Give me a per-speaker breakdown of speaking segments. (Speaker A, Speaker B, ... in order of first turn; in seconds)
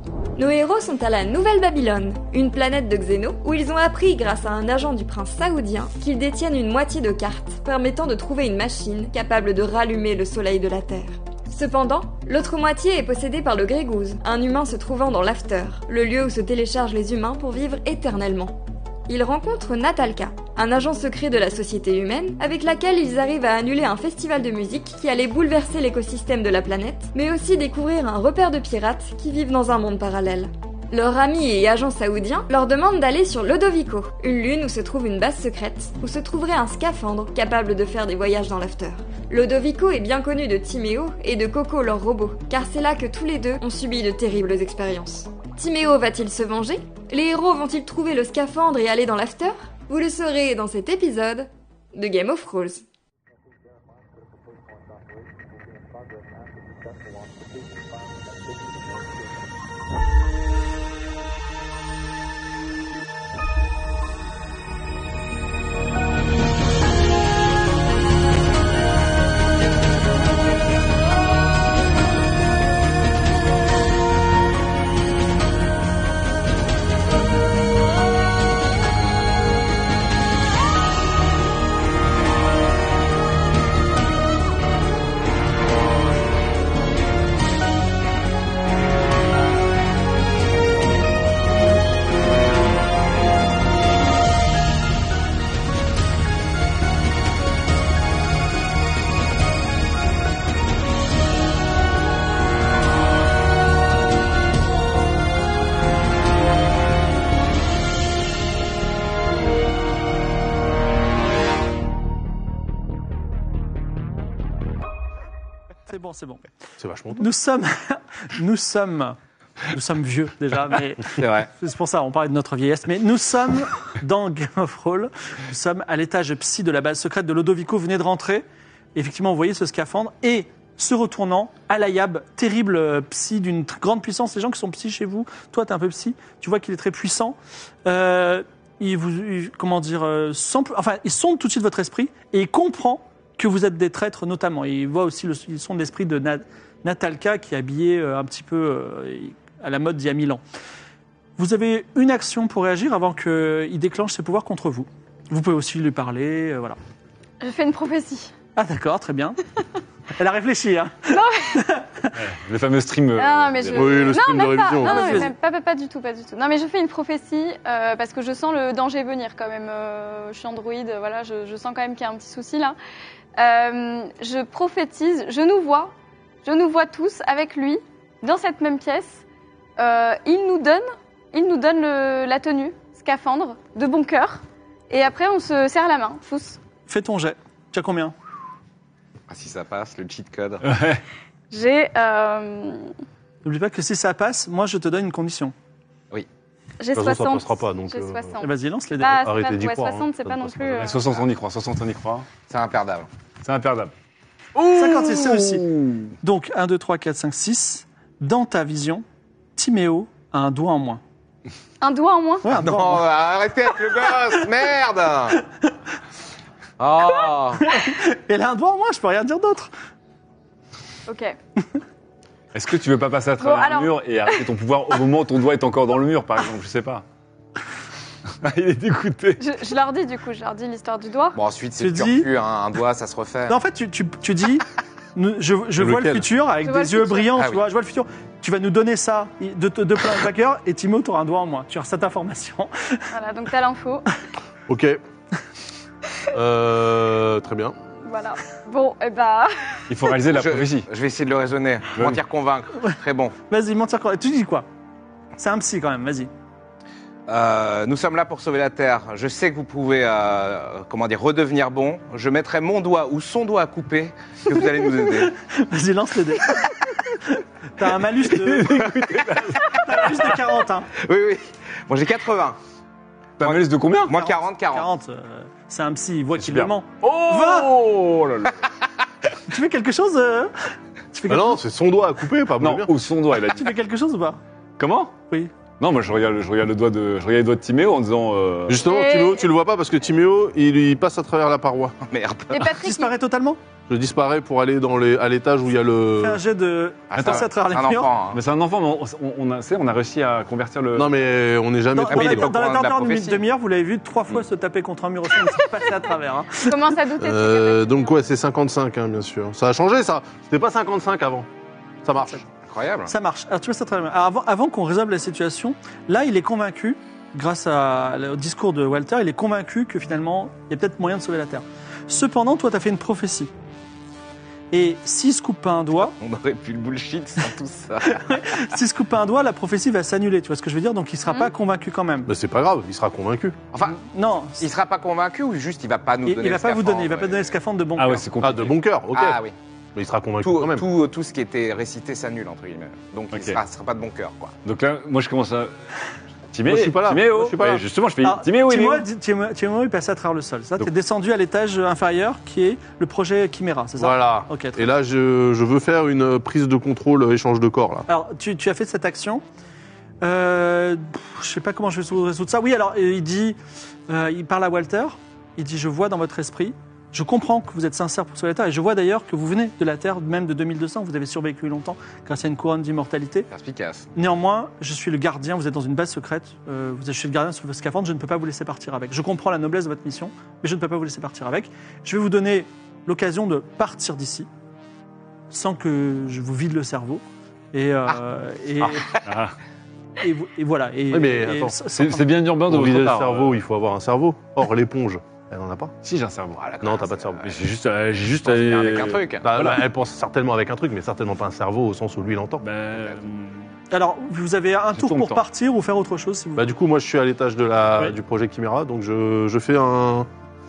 Speaker A: 0.4-52.8
Speaker B: 115.9-116.4, 117.2-119.2, 119.7-150.4, 151.4-156.8, 158.6-159.4, 160.2-162.2, 164.8-165.3, 186.9-188.1, 193.4-195.5, 198.4-199.2, 204.7-205.7, 206.2-209.0, 209.6-211.0, 212.4-213.1, 217.7-219.7, 231.8-232.3, 233.5-243.0, 253.5-254.7, 255.4-256.3, 265.5-268.8, 269.7-270.9, 274.1-277.7, 279.5-280.5, 281.1-281.6, 283.5-284.4, 292.7-293.6, 296.2-298.1, 301.9-306.8, 313.1-323.5, 324.7-326.1, 328.1-332.3, 333.9-334.7, 336.2-338.3, 348.2-354.8, 358.1-359.4, 360.2-363.6, 364.1-373.5, 374.2-384.5, 385.5-389.1, 390.2-392.3, 403.9-406.6
Speaker C: 116.8-117.2, 163.7-165.3, 196.9-198.4, 199.1-200.9, 235.8-236.3, 244.7-245.0, 246.3-247.8, 281.3-282.9, 288.7-292.0, 293.9-296.4, 300.9-302.5, 307.2-311.5, 312.0-312.4, 332.3-333.6, 338.4-339.4, 340.0-340.9, 346.6-347.9, 354.0-358.1, 391.1-391.8, 392.7-395.9, 396.8-397.4, 399.4-402.6, 406.6-410.3
Speaker D: 121.2-121.5, 189.3-190.7, 202.5-203.1, 212.5-215.4, 216.8-217.7, 231.3-233.6, 237.4-237.6, 250.3-253.3, 257.3-265.3, 270.9-272.6, 273.4-274.9, 292.0-292.6, 297.1-298.4, 302.1-303.4, 312.6-313.1, 326.0-328.5, 333.7-334.0, 334.6-337.6, 339.1-339.5, 340.4-344.6, 373.5-374.1, 396.6-397.5, 398.4-399.5
Speaker E: 157.4-158.3, 161.1-161.6, 163.2-172.8, 173.4-175.9, 176.4-179.2, 179.8-186.6, 191.5-192.9, 196.8-201.0, 211.8-212.5, 221.1-221.4, 223.4-224.4, 229.4-231.4, 236.6-237.3, 243.1-244.1, 248.1-249.8, 288.8-289.5, 292.5-293.1, 306.6-308.2
Speaker F: 162.2-164.1, 190.6-191.0, 200.8-202.3, 203.4-203.9, 204.6-206.2, 222.5-227.0, 228.4-229.4, 249.9-250.9, 251.9-252.2, 268.3-269.7, 273.4-274.2, 276.4-278.6, 282.6-283.8, 284.8-285.1, 285.8-288.8, 297.2-297.4, 298.3-301.1, 338.0-338.7, 343.3-343.6, 344.6-345.7, 346.5-349.1, 389.2-389.6, 391.9-393.5, 396.0-396.7, 397.4-399.9, 402.6-403.7, 404.9-405.4